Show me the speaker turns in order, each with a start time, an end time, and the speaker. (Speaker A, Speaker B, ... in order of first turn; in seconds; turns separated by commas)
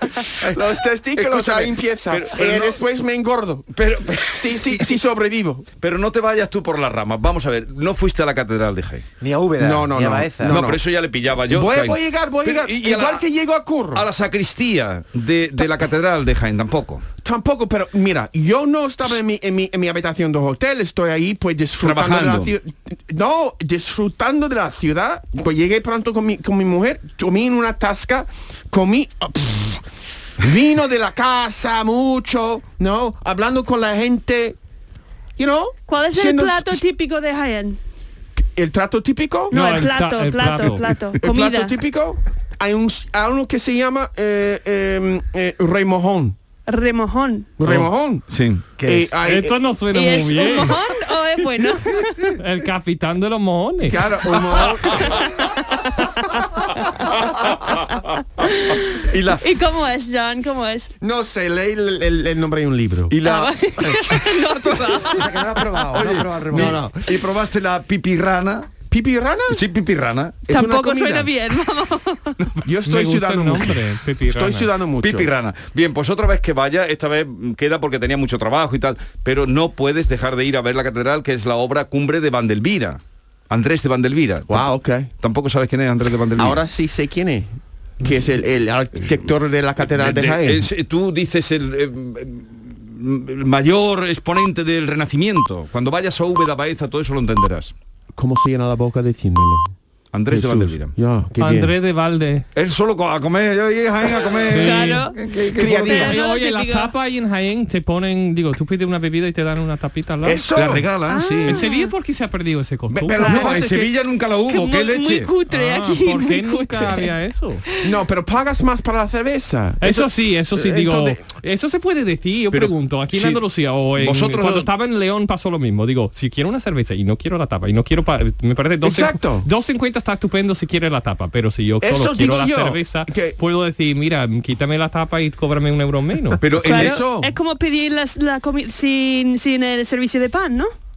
Speaker A: 0.5-3.7, Speaker B: 1.2-2.8, Speaker B: 3.7-5.0, Speaker A: 4.2-5.7, Speaker B: 5.8-9.1, Speaker C: 9.2-10.6, Speaker A: 9.6-10.8, Speaker B: 10.5-13.2, Speaker A: 11.5-14.0, Speaker B: 13.9-17.0, Speaker A: 17.2-29.8, Speaker B: 21.8-22.5, Speaker A: 30.4-34.6, Speaker A: 35.4-36.8, Speaker D: 35.9-37.8, Speaker A: 38.5-39.5, Speaker E: 39.5-41.0, Speaker D: 39.5-41.8, Speaker A: 41.2-46.4, Speaker D: 46.7-47.5, Speaker A: 47.6-48.2, Speaker B: 48.3-48.6, Speaker C: 48.8-49.1, Speaker A: 48.8-49.6, Speaker E: 49.2-50.8, Speaker D: 49.9-52.3, Speaker E: 52.4-54.0, Speaker A: 53.9-55.0, Speaker D: 55.7-56.8, Speaker D: 58.4-60.9, Speaker B: 59.1-59.4, Speaker A: 61.0-63.2, Speaker B: 63.1-64.2, Speaker D: 63.2-65.4, Speaker C: 65.0-66.8, Speaker B: 65.7-68.7, Speaker A: 66.5-67.1, Speaker A: 68.9-69.6, Speaker B: 69.5-70.4, Speaker A: 70.5-71.3, Speaker D: 70.5-72.5, Speaker A: 72.7-75.3, Speaker E: 72.9-74.7, Speaker B: 75.0-86.7, Speaker A: 84.5-85.1, Speaker A: 86.4-90.6, Speaker B: 89.8-97.7, Speaker A: 98.2-99.7, Speaker B: 100.1-100.9, Speaker A: 100.3-101.7, Speaker E: 101.4-102.5, Speaker B: 102.5-106.0, Speaker E: 104.5-105.1, Speaker D: 104.6-106.9, Speaker A: 105.5-106.2, Speaker E: 105.7-110.5, Speaker A: 110.2-110.9, Speaker B: 110.5-111.6, Speaker D: 111.1-111.9, Speaker E: 111.5-113.5, Speaker A: 112.9-113.9, Speaker B: 113.1-115.3, Speaker D: 113.2-113.6, Speaker D: 114.5-117.1, Speaker E: 115.5-117.6, Speaker A: 117.8-121.2, Speaker E: 119.8-136.4, Speaker B: 122.5-123.4, Speaker B: 124.0-124.7, Speaker A: 128.8-129.5, Speaker A: 131.8-133.4, Speaker B: 136.4-137.0, Speaker A: 136.7-137.3, Speaker D: 136.7-140.7